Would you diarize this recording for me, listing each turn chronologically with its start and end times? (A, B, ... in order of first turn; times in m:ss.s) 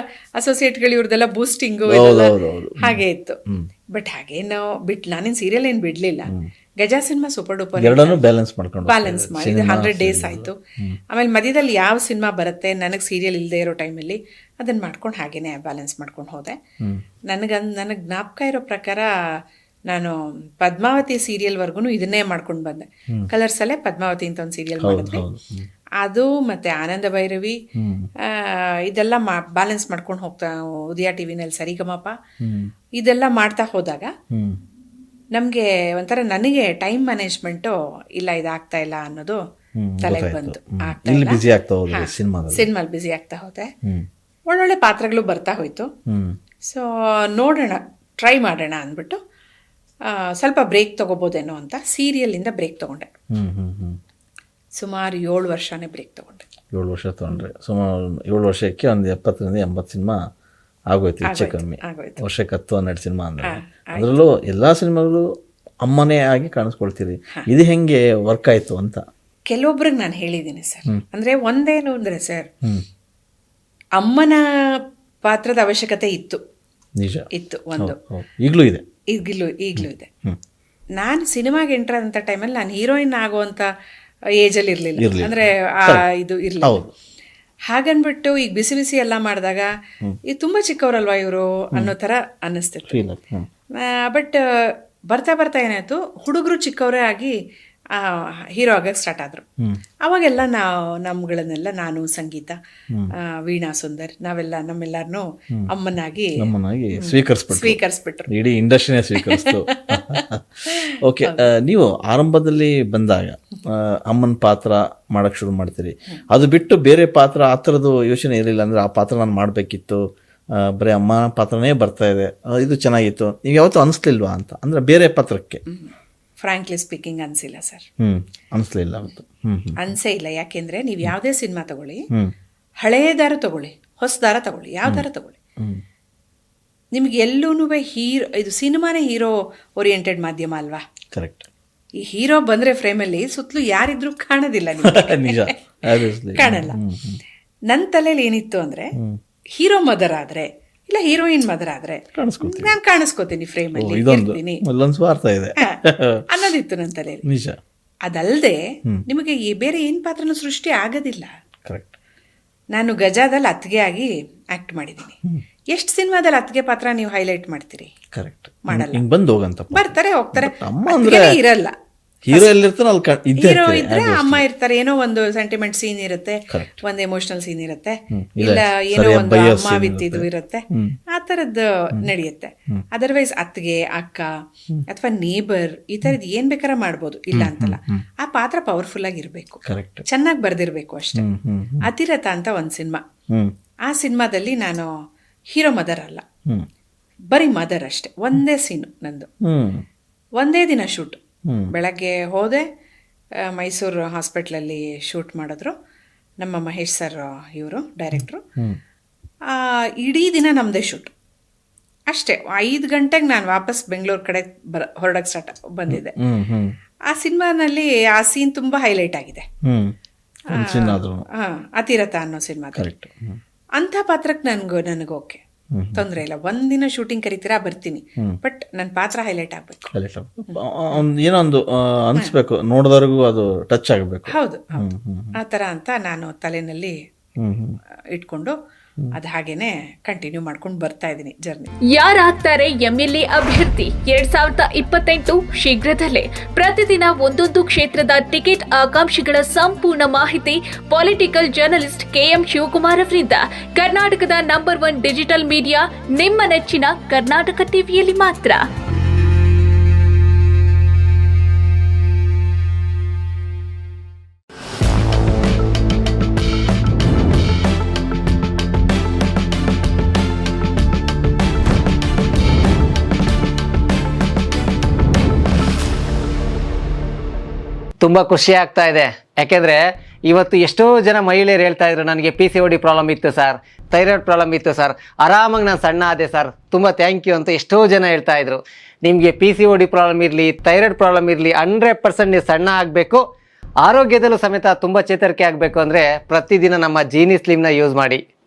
0:00.4-0:03.4 A
0:01.9-0:03.7 B
0:03.9-0:08.2 A
0:07.8-0:11.0 B
0:08.8-0:10.6 A
0:11.1-0:16.6 A
0:17.3-0:19.1 A
0:19.9-0:25.2 A
0:24.8-0:25.7 B
0:26.0-0:27.6 A
0:27.8-0:28.1 B
0:28.3-0:32.1 A
0:32.4-0:32.7 B
0:33.0-0:34.1 A
0:34.3-0:34.6 B
0:35.3-0:39.4 A
0:39.8-0:42.7 B
0:40.0-0:43.7 A
0:44.5-0:45.9 A
0:46.1-0:46.4 B
0:46.7-0:49.2 A
0:50.1-0:53.1 A
0:53.3-0:54.0 B
0:54.8-0:56.5 A
0:56.7-1:00.2 B
1:00.9-1:05.3 B
1:01.2-1:02.2 A
1:03.4-1:04.1 A
1:05.8-1:09.0 B
1:09.5-1:12.5 A
1:14.0-1:14.4 A
1:15.2-1:16.4 A
1:17.0-1:18.8 B
1:17.3-1:18.0 A
1:19.1-1:20.1 A
1:19.8-1:20.4 B
1:21.0-1:23.7 A
1:24.4-1:26.8 A
1:25.0-1:26.0 B
1:26.6-1:26.9 B
1:27.7-1:29.7 A
1:30.3-1:33.0 A
1:32.9-1:33.5 B
1:33.8-1:34.4 A
1:35.1-1:37.3 A
1:37.9-1:39.4 A
1:40.0-1:42.6 A
1:43.2-1:46.4 A
1:46.4-2:00.0 B
1:47.0-1:48.3 A
1:49.2-1:51.5 A
2:00.6-2:05.6 B
2:05.7-2:07.8 A
2:08.0-2:09.8 B
2:09.8-2:12.0 A
2:12.8-2:15.4 A
2:16.9-2:20.8 A
2:21.1-2:21.5 B
2:22.0-2:25.5 A
2:24.8-2:27.2 B
2:26.3-2:26.8 A
2:27.7-2:28.9 A
2:29.6-2:34.6 A
2:32.1-2:32.8 B
2:33.7-2:36.2 B
2:36.3-2:37.2 A
2:37.2-2:37.6 B
2:38.0-2:41.3 A
2:41.6-2:41.9 B
2:42.7-2:45.2 A
2:45.7-2:47.9 A
2:48.1-2:51.4 B
2:48.7-2:49.0 A
2:49.7-2:51.7 A
2:52.2-2:54.4 B
2:52.3-2:52.5 A
2:53.4-3:04.3 A
2:56.5-2:56.8 B
2:58.1-3:01.0 B
3:04.9-3:11.2 A
3:07.3-3:08.0 B
3:09.6-3:10.0 B
3:11.1-3:11.9 B
3:11.8-3:13.0 A
3:13.9-3:14.9 A
3:15.5-3:16.2 A
3:17.3-3:19.3 A
3:19.4-3:19.8 B
3:20.4-3:21.2 A
3:21.7-3:22.6 A
3:23.4-3:25.8 A
3:26.4-3:28.4 A
3:29.5-3:31.1 A
3:32.1-3:36.1 A
3:35.9-3:36.7 B
3:37.1-3:39.4 A
3:39.6-3:39.9 B
3:40.5-3:41.2 B
3:40.5-3:42.9 A
3:42.8-3:43.4 B
3:43.8-3:45.4 A
3:45.7-3:46.1 B
3:45.9-3:49.9 A
3:49.9-3:55.4 B
3:54.3-3:54.9 A
3:55.4-3:57.0 A
3:57.4-3:57.8 B
3:58.1-3:58.6 A
3:59.1-4:01.7 A
4:01.9-4:18.6 C
4:38.0-4:53.2 D
4:53.8-4:58.2 D